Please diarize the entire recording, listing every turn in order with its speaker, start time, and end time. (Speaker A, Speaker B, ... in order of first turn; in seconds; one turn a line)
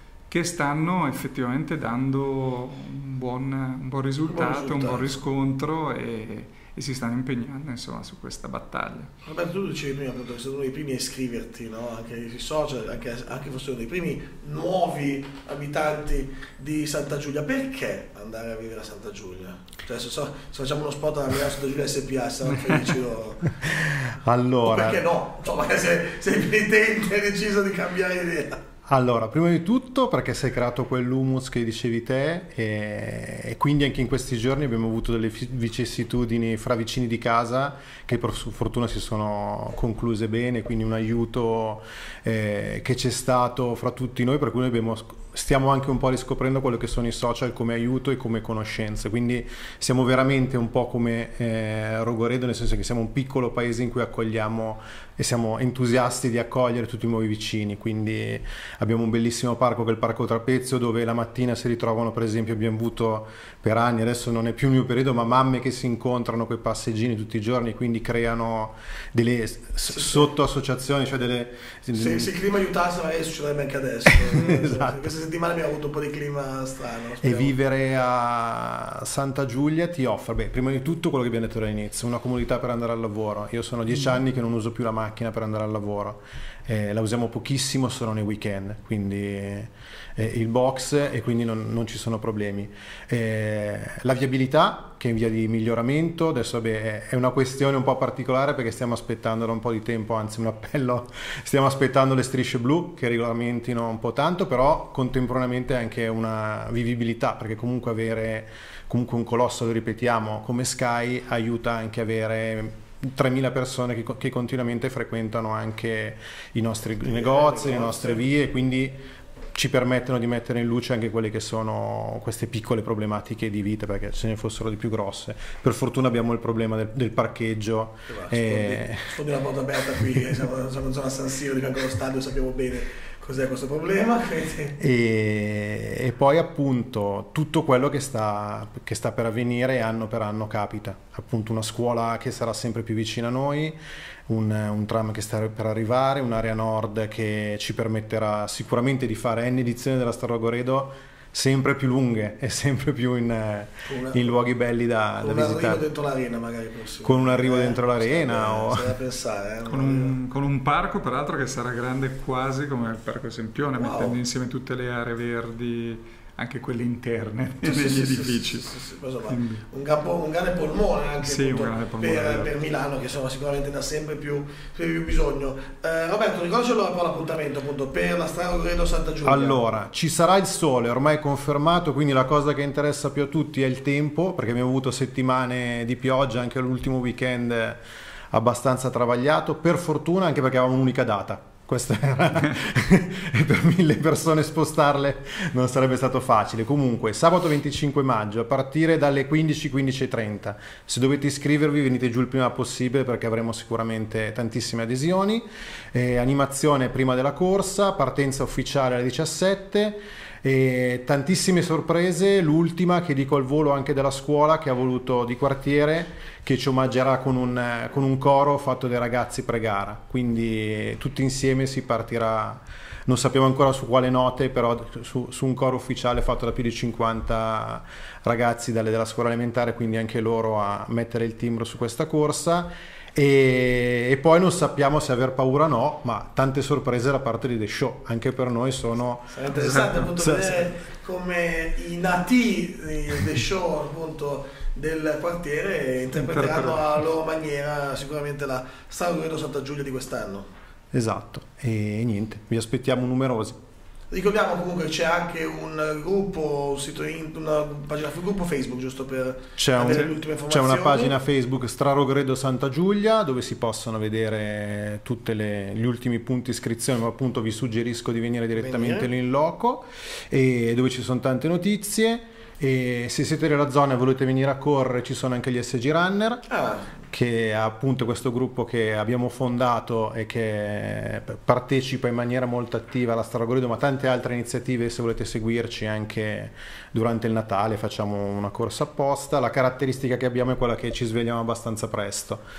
Speaker A: 0.3-9.1
Speaker B: 4.3-5.2
Speaker B: 9.2-23.5
Speaker A: 22.7-22.9
Speaker C: 23.6-25.0
Speaker B: 24.6-28.6
Speaker C: 28.9-72.3
Speaker B: 69.9-70.2
Speaker B: 72.0-77.5
Speaker C: 74.1-75.1
Speaker C: 77.2-119.0
Speaker B: 117.0-118.2
Speaker C: 119.5-129.1
Speaker B: 128.1-134.8
Speaker C: 134.8-143.8
Speaker C: 144.3-155.8
Speaker B: 153.9-154.3
Speaker B: 155.2-160.2
Speaker C: 157.0-158.9
Speaker A: 159.7-168.7
Speaker B: 163.8-164.2
Speaker B: 167.6-179.6
Speaker A: 169.3-169.6
Speaker A: 171.2-172.6
Speaker C: 179.2-240.7
Speaker B: 239.3-250.5
Speaker A: 246.1-247.0
Speaker C: 250.9-253.6
Speaker B: 254.1-261.2
Speaker C: 259.6-276.5
Speaker B: 268.5-269.1
Speaker B: 276.5-276.9
Speaker C: 277.1-292.4